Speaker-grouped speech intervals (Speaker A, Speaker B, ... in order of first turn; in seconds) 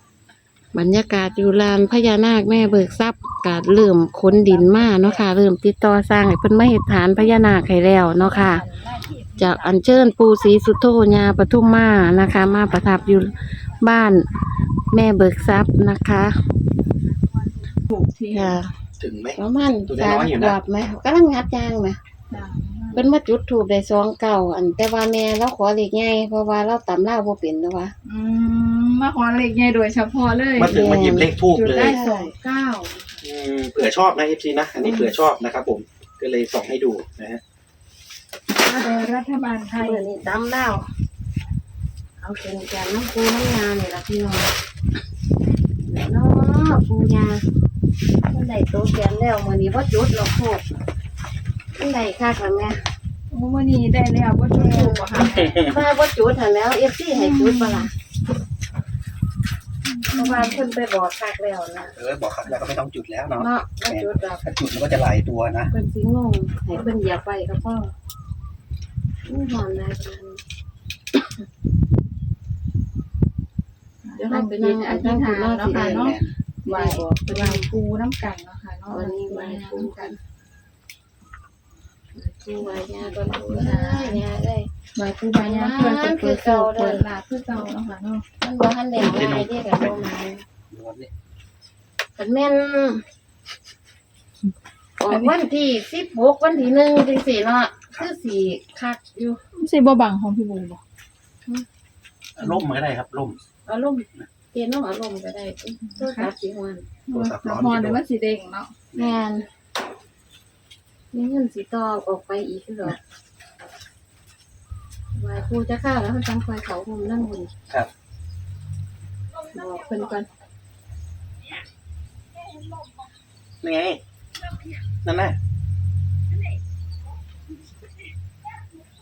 Speaker A: 0.7-8.7, 9.3-14.3, 14.9-16.4, 18.3-18.7, 19.4-22.0, 23.0-27.9, 30.6-32.4, 39.8-40.9, 42.2-44.5, 45.9-47.4, 48.3-50.6, 51.8-52.8, 54.5-57.9, 60.1-62.0, 63.4-64.5, 65.7-67.9, 69.2-70.4, 74.2-76.2, 76.7-77.7, 78.9-80.2, 82.2-84.7, 85.4-87.0, 88.4-90.5, 92.2-93.0, 95.0-99.4, 103.7-106.9, 108.9-109.5, 111.1-113.0, 115.2-117.5, 119.5-120.3
Speaker B: 17.9-18.6, 22.3-23.0, 28.1-32.9, 34.9-35.1, 38.6-40.0, 53.3-55.6, 57.1-57.9, 59.9-60.7, 74.0-80.1, 82.6-84.2, 85.0-88.2, 95.1-95.3, 99.6-100.8, 105.9-106.3, 107.1-108.8
Speaker C: 19.0-20.6, 30.6-32.0, 33.2-37.4, 62.0-65.7, 75.7-76.3, 89.0-90.0, 90.7-91.1, 102.4-103.4, 107.1-108.0, 123.6-124.0, 125.0-125.4